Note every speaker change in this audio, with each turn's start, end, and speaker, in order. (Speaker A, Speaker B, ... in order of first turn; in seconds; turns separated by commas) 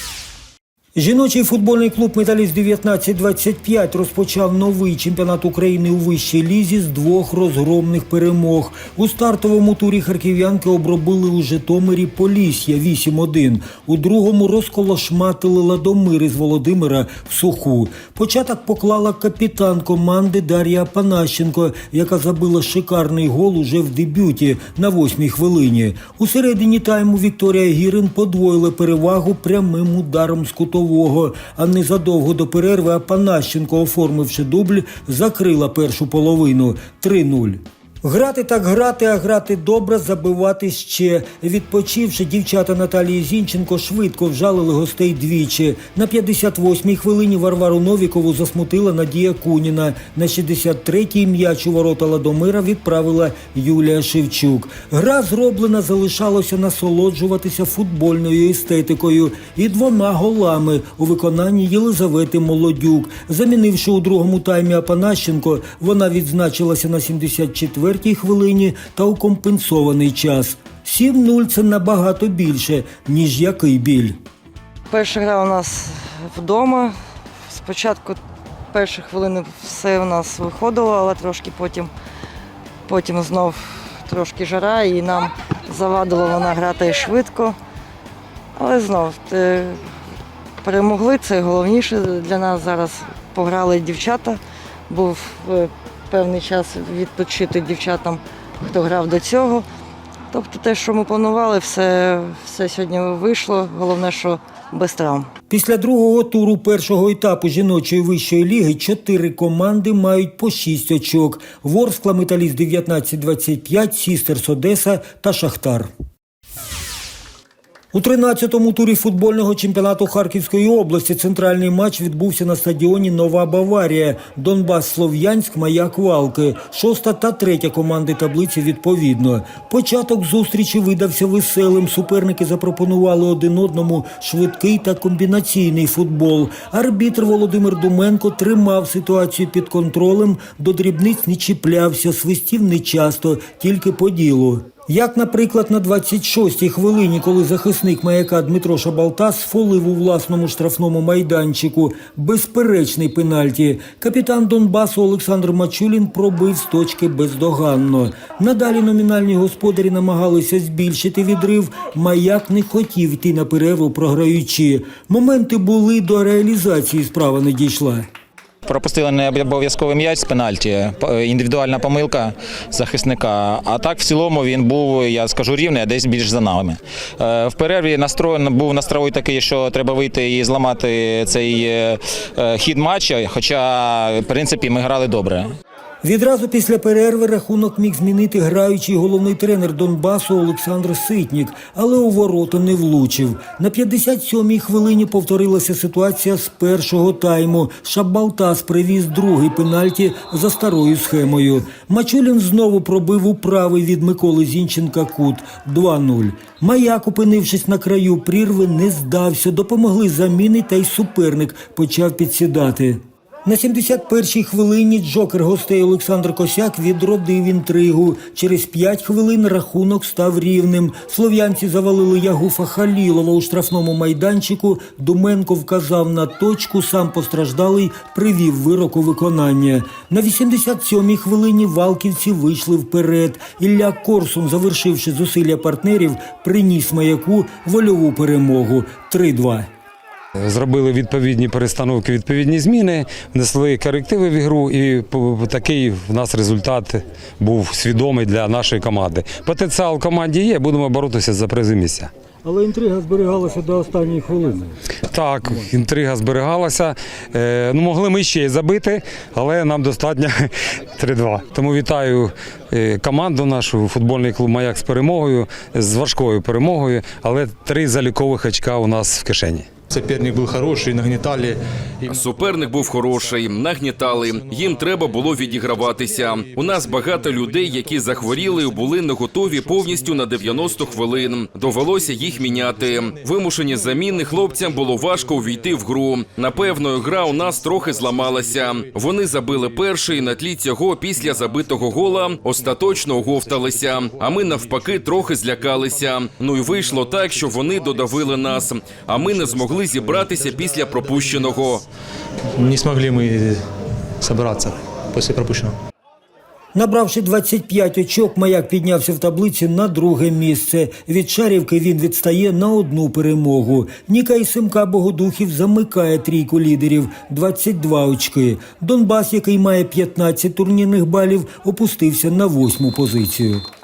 Speaker A: 0.9-74.2, Speaker B: 74.9-76.9, Speaker B: 77.5-78.2, Speaker B: 78.7-81.9, Speaker B: 82.8-87.6, Speaker B: 88.5-89.8, Speaker B: 90.6-99.6, Speaker B: 100.3-105.3, Speaker A: 105.5-115.9, Speaker A: 117.9-168.1, Speaker C: 168.7-185.5, Speaker A: 186.0-239.7, Speaker D: 240.5-252.1, Speaker A: 252.4-254.7, Speaker D: 255.1-269.7, Speaker E: 269.9-273.4, Speaker F: 272.1-301.8, Speaker E: 274.0-278.8, Speaker E: 279.6-285.9, Speaker E: 286.8-288.9, Speaker E: 289.4-289.8, Speaker E: 291.2-296.1, Speaker E: 296.7-301.7, Speaker E: 302.6-303.6, Speaker E: 304.2-305.7, Speaker A: 306.7-323.6